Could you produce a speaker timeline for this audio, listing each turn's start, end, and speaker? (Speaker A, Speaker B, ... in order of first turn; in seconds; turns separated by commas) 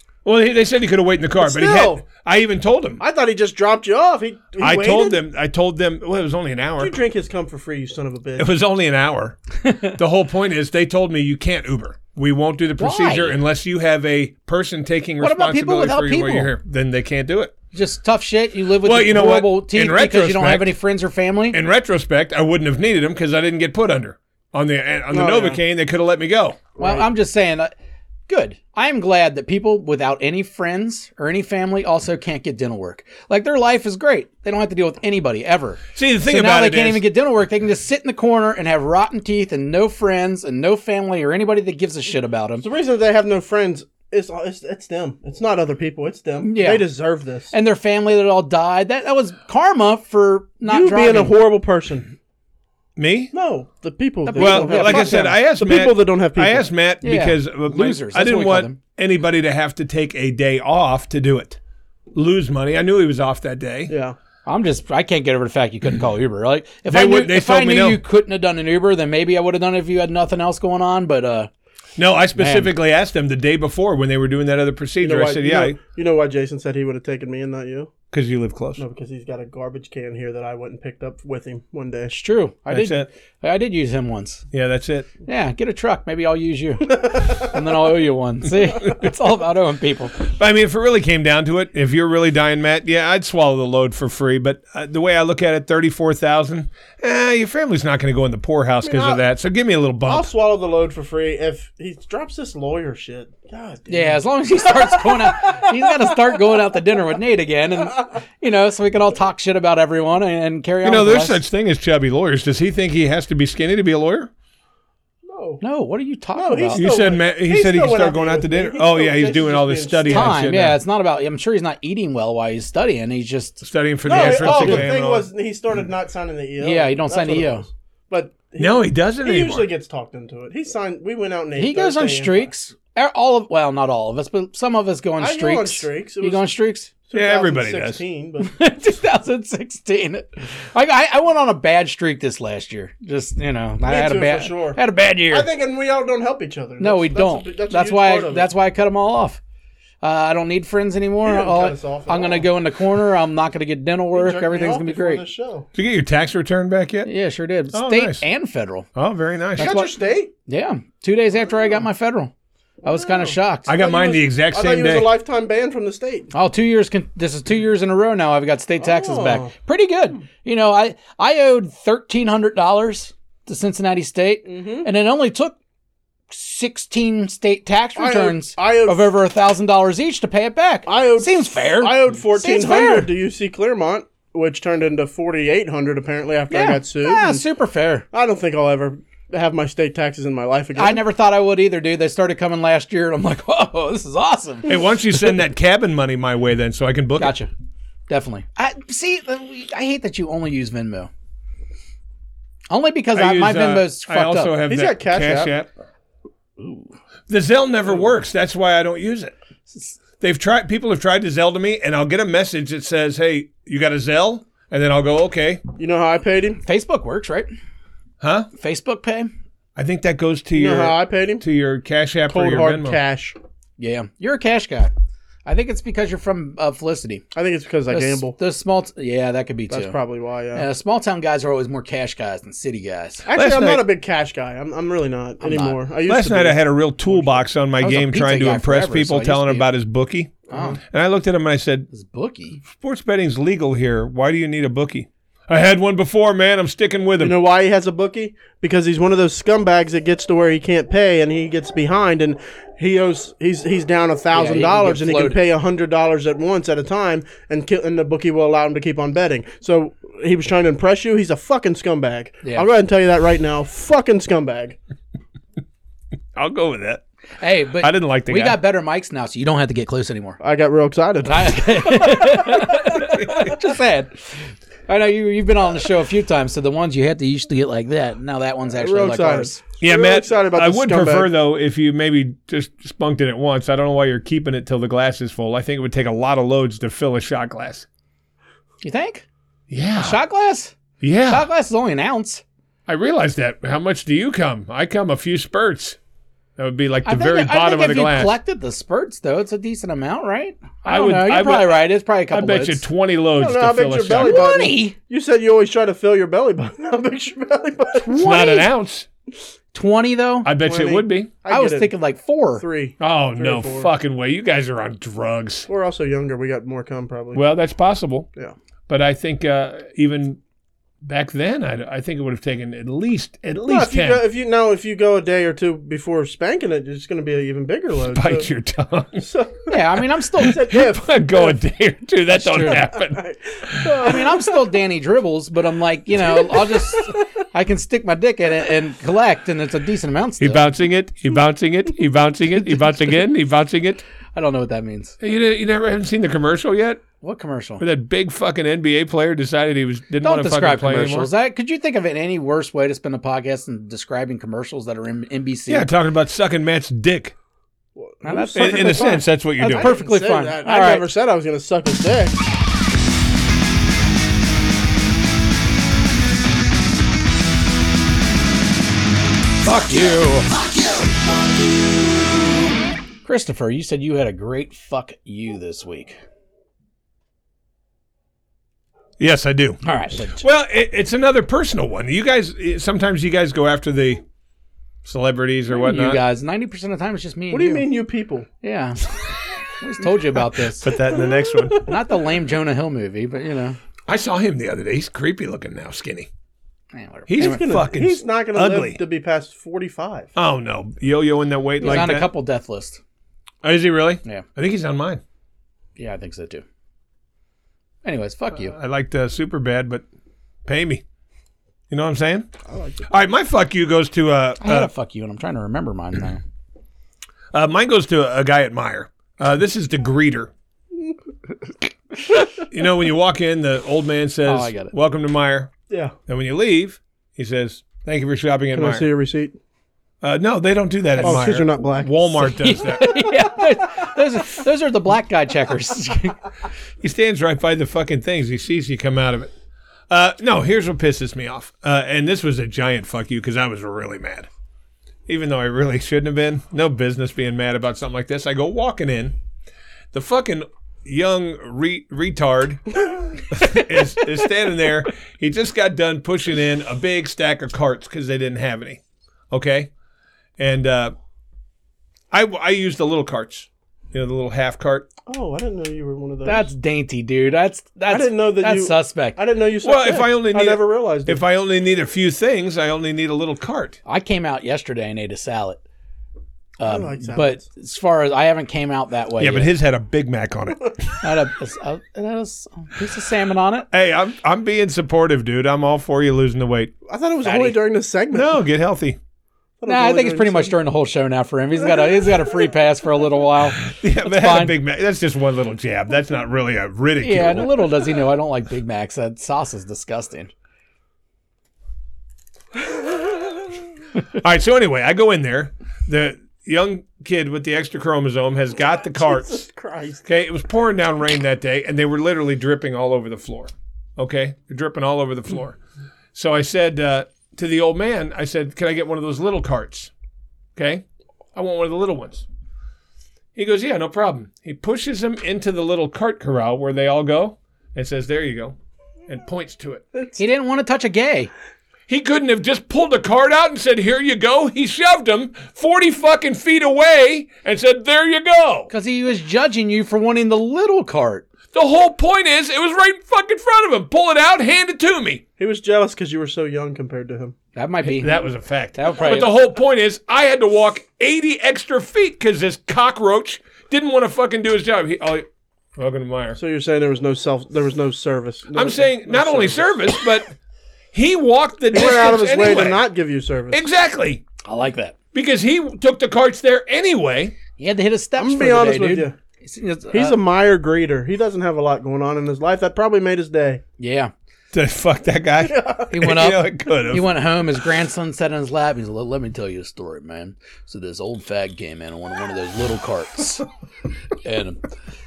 Speaker A: 0.2-3.0, Speaker B: 1.4-2.0, Speaker B: 3.0-5.2, Speaker A: 4.6-6.9, Speaker B: 6.8-8.5, Speaker A: 8.4-17.5, Speaker C: 9.6-9.9, Speaker C: 12.8-13.4, Speaker C: 15.2-16.5, Speaker C: 17.7-21.6, Speaker A: 18.8-20.7, Speaker A: 21.5-26.6, Speaker B: 25.1-25.6, Speaker B: 26.8-27.1, Speaker C: 26.8-27.7, Speaker C: 28.3-42.6, Speaker A: 35.9-37.0, Speaker B: 42.6-47.5, Speaker C: 46.4-46.8, Speaker C: 47.5-51.3, Speaker B: 50.6-52.1, Speaker A: 53.0-53.3, Speaker B: 53.3-56.7, Speaker C: 54.2-55.3, Speaker A: 54.4-61.6, Speaker C: 57.0-58.8, Speaker A: 62.1-63.9, Speaker B: 63.9-64.2, Speaker C: 64.5-71.5, Speaker A: 66.9-68.0, Speaker A: 72.0-75.8, Speaker C: 72.3-72.7, Speaker B: 75.0-77.9, Speaker A: 78.1-78.8, Speaker B: 78.8-82.1, Speaker C: 82.1-84.4, Speaker A: 82.7-83.1, Speaker A: 84.5-85.1, Speaker C: 85.2-90.2, Speaker B: 87.0-87.5, Speaker A: 90.3-100.3, Speaker B: 98.8-99.2, Speaker B: 100.0-106.0, Speaker C: 103.9-111.4, Speaker A: 110.8-114.3, Speaker B: 115.2-115.6, Speaker C: 115.6-116.9, Speaker B: 116.3-120.4, Speaker A: 116.7-120.8, Speaker C: 120.1-124.9, Speaker A: 123.6-125.3, Speaker B: 124.0-132.5, Speaker C: 126.6-127.6, Speaker A: 128.6-129.7, Speaker C: 131.6-136.9, Speaker B: 135.2-136.4, Speaker B: 137.1-138.6, Speaker A: 137.1-138.0, Speaker C: 138.4-145.5, Speaker B: 143.8-148.5, Speaker C: 146.8-149.4, Speaker C: 150.0-155.2, Speaker B: 151.2-152.5, Speaker B: 154.1-155.7, Speaker A: 155.7-157.1, Speaker C: 157.1-158.9, Speaker A: 157.7-158.2, Speaker A: 158.9-159.7, Speaker C: 159.6-159.9, Speaker B: 159.6-160.3, Speaker C: 160.5-162.3, Speaker C: 162.8-163.7, Speaker B: 162.8-166.3, Speaker A: 163.7-165.1, Speaker C: 166.3-175.6, Speaker B: 168.8-169.5, Speaker B: 174.5-174.9, Speaker C: 176.3-183.1, Speaker B: 178.0-179.1, Speaker B: 180.9-187.4, Speaker C: 186.5-188.1, Speaker B: 188.1-191.0, Speaker C: 190.8-194.8, Speaker A: 194.7-197.3, Speaker C: 197.2-197.5, Speaker C: 198.1-201.1, Speaker C: 202.7-204.5, Speaker A: 203.1-205.7, Speaker B: 204.7-205.5, Speaker C: 206.6-206.9, Speaker A: 207.3-209.3, Speaker C: 209.7-210.0, Speaker A: 210.2-215.6, Speaker B: 215.8-216.6, Speaker C: 216.6-217.5, Speaker A: 218.2-218.5, Speaker C: 218.5-219.3, Speaker A: 219.8-223.0, Speaker B: 220.5-221.4, Speaker B: 222.3-223.4, Speaker C: 223.8-224.9, Speaker C: 225.4-227.2, Speaker B: 227.3-228.3, Speaker C: 227.9-229.9, Speaker B: 229.7-230.7, Speaker C: 230.5-233.2, Speaker B: 233.2-237.4, Speaker A: 233.3-233.8, Speaker C: 235.4-235.8, Speaker A: 236.1-241.9, Speaker C: 237.8-239.7, Speaker B: 240.5-240.8, Speaker C: 240.5-240.8, Speaker C: 241.9-242.6, Speaker A: 242.7-247.4, Speaker B: 247.2-264.8, Speaker C: 254.3-255.4, Speaker A: 266.3-267.0, Speaker C: 267.4-270.4, Speaker A: 267.8-268.6, Speaker B: 270.4-273.0, Speaker C: 271.2-279.6, Speaker A: 273.1-273.6, Speaker B: 278.8-281.3, Speaker A: 279.8-287.9, Speaker C: 288.8-289.2, Speaker A: 289.7-290.2, Speaker C: 290.0-290.8, Speaker A: 291.0-291.5, Speaker C: 291.3-292.4, Speaker A: 292.9-296.0, Speaker A: 296.6-298.3, Speaker C: 297.0-302.8, Speaker A: 300.8-304.5, Speaker B: 303.3-308.2, Speaker C: 304.2-304.9, Speaker C: 308.0-308.7, Speaker A: 308.1-309.1, Speaker C: 309.7-310.5, Speaker A: 310.4-311.3, Speaker B: 310.6-311.9, Speaker C: 311.5-312.6, Speaker B: 312.6-313.9, Speaker A: 313.0-315.7, Speaker B: 315.7-317.4, Speaker A: 317.3-318.3, Speaker A: 318.9-320.4, Speaker A: 321.0-324.2, Speaker B: 323.6-328.5, Speaker A: 328.1-329.3, Speaker B: 329.2-329.8, Speaker C: 329.7-330.6, Speaker B: 330.3-331.5, Speaker A: 330.4-333.9, Speaker C: 332.4-332.8, Speaker B: 332.6-334.7, Speaker C: 334.0-340.6, Speaker B: 336.2-337.2, Speaker A: 340.4-344.0, Speaker C: 344.3-345.1, Speaker A: 345.2-347.0, Speaker C: 347.2-347.8, Speaker A: 347.8-351.3, Speaker C: 350.2-355.9, Speaker A: 355.7-357.3, Speaker B: 357.9-362.4, Speaker C: 358.2-361.0, Speaker A: 358.5-359.9, Speaker C: 369.6-370.8, Speaker C: 373.2-376.2, Speaker A: 379.2-384.2, Speaker C: 379.8-380.4, Speaker A: 385.0-386.2, Speaker C: 385.7-387.9, Speaker B: 387.5-388.5, Speaker C: 388.6-389.0, Speaker C: 389.8-390.9, Speaker A: 390.8-391.8, Speaker B: 390.9-391.9, Speaker C: 391.9-393.8, Speaker A: 394.1-396.3, Speaker C: 396.9-397.6, Speaker A: 397.3-399.0, Speaker B: 397.4-400.3, Speaker A: 400.3-402.3, Speaker C: 401.8-403.0, Speaker A: 403.6-405.2, Speaker C: 406.0-406.6, Speaker C: 408.0-408.7, Speaker A: 408.5-410.0, Speaker A: 410.6-411.0, Speaker A: 411.9-412.5, Speaker B: 412.7-413.1, Speaker A: 413.1-414.9, Speaker C: 414.6-416.4, Speaker A: 417.5-420.5, Speaker A: 422.6-425.7, Speaker C: 424.4-424.9, Speaker B: 425.9-426.1, Speaker A: 426.3-429.1, Speaker B: 428.7-429.6, Speaker A: 430.2-433.1, Speaker C: 431.2-431.5, Speaker B: 431.2-432.4, Speaker C: 432.4-436.4, Speaker B: 433.0-433.3, Speaker A: 437.0-439.5, Speaker A: 440.1-444.5, Speaker A: 445.3-449.4, Speaker A: 450.1-459.9, Speaker A: 460.6-461.1, Speaker A: 462.3-465.1, Speaker B: 465.2-466.7, Speaker C: 466.4-469.4, Speaker B: 468.1-471.4, Speaker A: 469.8-474.0, Speaker C: 474.1-475.8, Speaker C: 476.8-479.7, Speaker B: 476.8-477.6, Speaker A: 479.4-480.9, Speaker C: 481.2-483.9, Speaker A: 483.9-486.9, Speaker B: 487.1-488.5, Speaker C: 487.4-487.8, Speaker A: 488.3-489.2, Speaker B: 489.8-490.7, Speaker C: 489.9-494.8, Speaker B: 492.1-492.5, Speaker A: 493.9-497.7, Speaker C: 497.2-500.5, Speaker A: 504.4-509.6, Speaker B: 509.1-510.2, Speaker A: 510.2-515.8, Speaker A: 516.3-520.1, Speaker A: 520.8-521.0, Speaker A: 521.5-522.5, Speaker A: 523.5-528.8, Speaker A: 529.3-530.0, Speaker C: 530.4-531.5, Speaker A: 532.1-538.9, Speaker C: 538.9-541.5, Speaker A: 541.7-545.4, Speaker B: 545.6-547.5, Speaker C: 547.7-548.4, Speaker A: 548.1-556.6, Speaker C: 548.9-549.5, Speaker B: 556.6-559.9, Speaker A: 558.7-560.5, Speaker A: 561.1-563.0, Speaker B: 561.9-563.9, Speaker A: 563.7-564.4, Speaker C: 564.6-565.1, Speaker A: 565.3-567.5, Speaker C: 567.8-570.4, Speaker B: 568.4-569.3, Speaker B: 570.1-573.8, Speaker C: 574.0-574.3, Speaker A: 574.7-577.3, Speaker B: 575.6-576.1, Speaker C: 576.1-583.6, Speaker C: 584.4-584.8